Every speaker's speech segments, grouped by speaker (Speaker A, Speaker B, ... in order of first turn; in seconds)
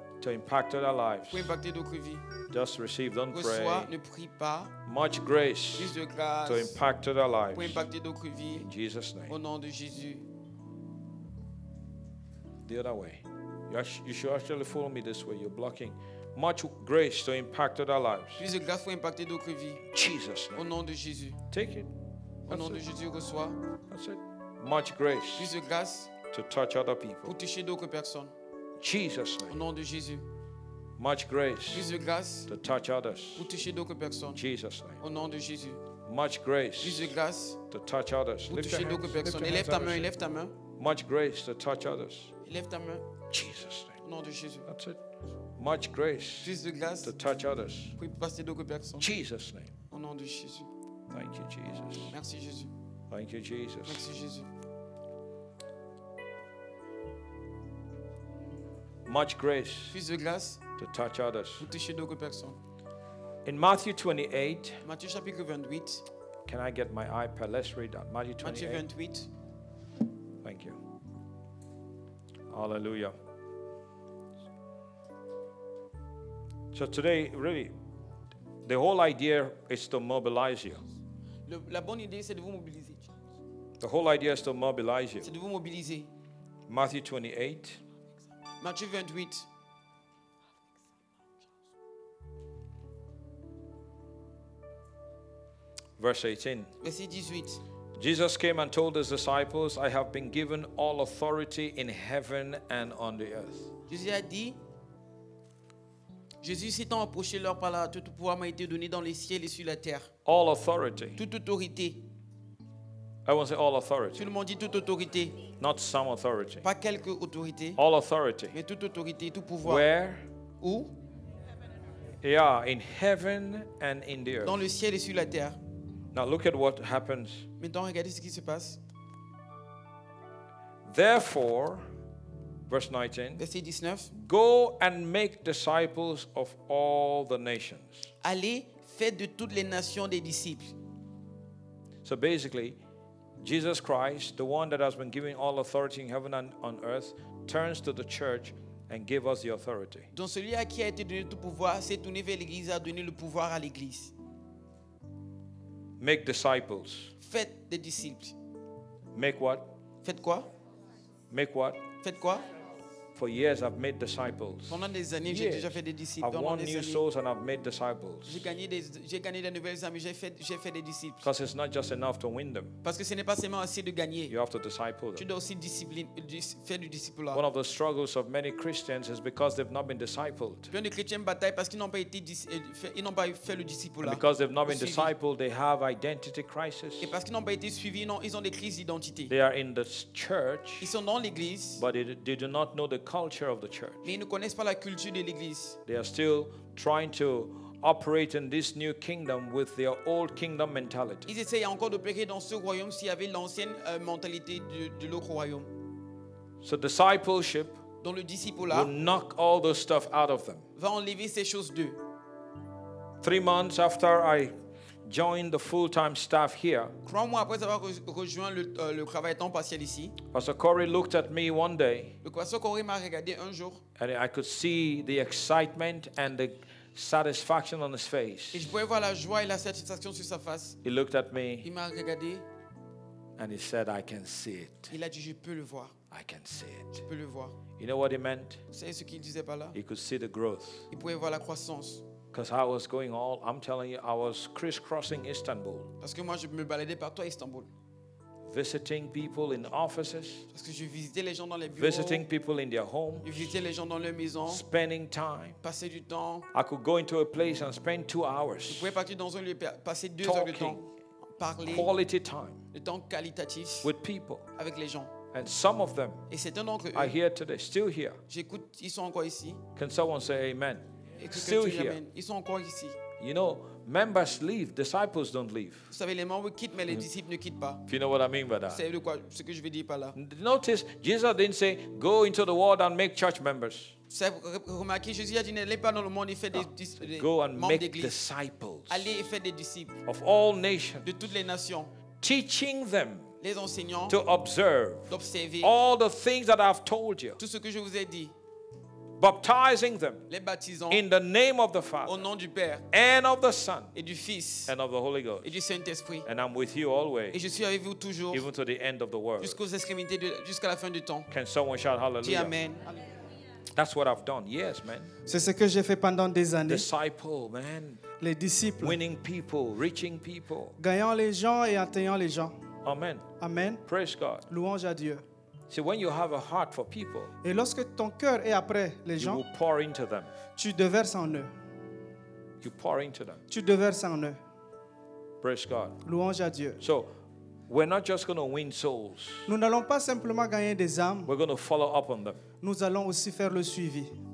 Speaker A: 0.2-1.5, 2.5-3.9, 4.8-6.0, 6.5-7.9, 8.6-9.4, 12.7-18.5, 19.8-20.7, 21.5-21.9, 22.5-22.8, 23.9-25.5, 26.3-27.3, 28.8-29.6, 31.0-31.9, 32.5-33.5, 34.3-35.0, 36.0-37.1, 37.7-40.1, 40.8-42.3, 43.3-44.0, 44.7-45.0, 45.6-48.0, 49.0-49.7, 51.1-52.1, 53.1-54.1, 59.1-60.0, 60.8-61.7, 63.5-64.8, 66.5-68.8, 70.4-70.8, 72.5-73.2, 76.7-77.7, 78.7-80.8, 83.8-85.3, 86.7-87.8, 96.0-96.7, 98.0-103.7, 110.2-111.2, 113.3-114.3, 115.6-116.7, 117.8-118.6, 119.6-120.3, 122.2-124.7, 126.1-127.5, 130.9-131.9, 132.7-133.4, 134.1-138.1, 142.0-142.8, 143.4-150.1, 156.0-157.1, 159.1-159.8, 161.3-161.8, 163.2-168.5, 171.2-172.7, 174.3-175.3, 177.3-180.7, 184.0-187.1, 189.3-190.9, 191.8-194.2, 195.9-201.3, 206.6-207.8, 208.7-210.6, 213.2-214.5, 215.1-217.0, 220.3-222.2, 224.0-228.8, 230.8-231.7, 233.4-234.9, 236.1-237.0, 237.8-238.6, 239.7-240.9, 242.3-245.9, 248.5-250.5, 251.7-253.6, 254.5-255.6, 256.5-259.0, 260.2-260.8, 261.7-262.6, 263.8-264.5, 265.3-266.2, 266.9-268.2, 269.8-272.0, 273.2-275.9, 277.9-278.8, 280.1-283.9, 286.6-289.2, 290.1-291.2, 292.2-293.3, 294.1-297.4, 299.2-300.3, 300.9-302.2, 302.9-303.9, 304.7-305.6, 306.2-307.4, 308.3-309.6, 311.3-312.5, 313.8-315.1, 316.7-318.0, 318.8-320.8, 322.8-323.3, 323.9-324.5, 325.7-327.3, 329.2-330.3, 332.6-333.4, 335.4-336.0, 336.8-337.1, 337.7-339.5, 341.3-342.4
Speaker B: 1.3-2.3, 3.3-4.8, 5.8-6.8, 7.5-8.7, 9.3-10.3, 18.4-19.8, 20.6-21.4, 22.5-23.6, 25.4-26.1, 27.2-28.3, 29.5-30.2, 31.7-32.5, 33.4-34.4, 35.0-35.8, 36.8-37.6, 38.5-40.6, 42.4-43.1, 44.0-44.7, 46.4-47.1, 48.0-49.1, 49.9-50.7, 52.1-52.7, 53.9-54.5, 59.9-60.6, 61.6-62.6, 64.8-66.0, 68.4-69.3, 81.5-83.1, 85.2-86.1, 88.6-89.5, 96.8-97.6, 103.9-104.6, 106.4-110.1, 111.2-112.0, 114.2-115.4, 116.6-117.8, 118.5-119.9, 120.6-120.9, 124.4-125.6, 127.6-128.8, 133.4-134.1, 138.2-140.8, 150.1-154.1, 157.2-158.4, 160.0-160.5, 162.0-162.4, 164.7-167.0, 168.3-171.3, 172.8-174.3, 175.2-177.4, 180.7-185.1, 187.0-189.3, 190.8-191.8, 194.0-195.8, 201.3-205.7, 208.0-208.9, 210.8-212.0, 217.0-220.2, 222.2-223.8, 228.5-230.8, 231.6-232.5, 234.9-235.9, 237.0-237.6, 238.7-239.8, 240.9-242.1, 246.0-247.7, 250.5-252.3, 253.2-254.7, 255.6-256.5, 258.7-261.9, 262.7-263.9, 264.6-265.1, 266.3-267.2, 268.3-269.6, 271.2-273.0, 275.9-277.8, 278.7-280.2, 284.1-288.2, 288.9-290.0, 291.0-291.9, 293.4-294.2, 295.1-295.7, 297.4-298.3, 300.3-301.1, 302.1-302.9, 303.9-304.7, 305.4-306.3, 307.3-308.5, 309.4-311.3, 312.2-313.0
Speaker C: 315.3-316.9, 318.2-319.0, 320.8-322.5, 323.4-323.8, 324.5-325.2, 327.4-329.4, 330.6-331.5, 333.5-334.4, 336.0-336.8, 339.5-341.3, 342.6-344.1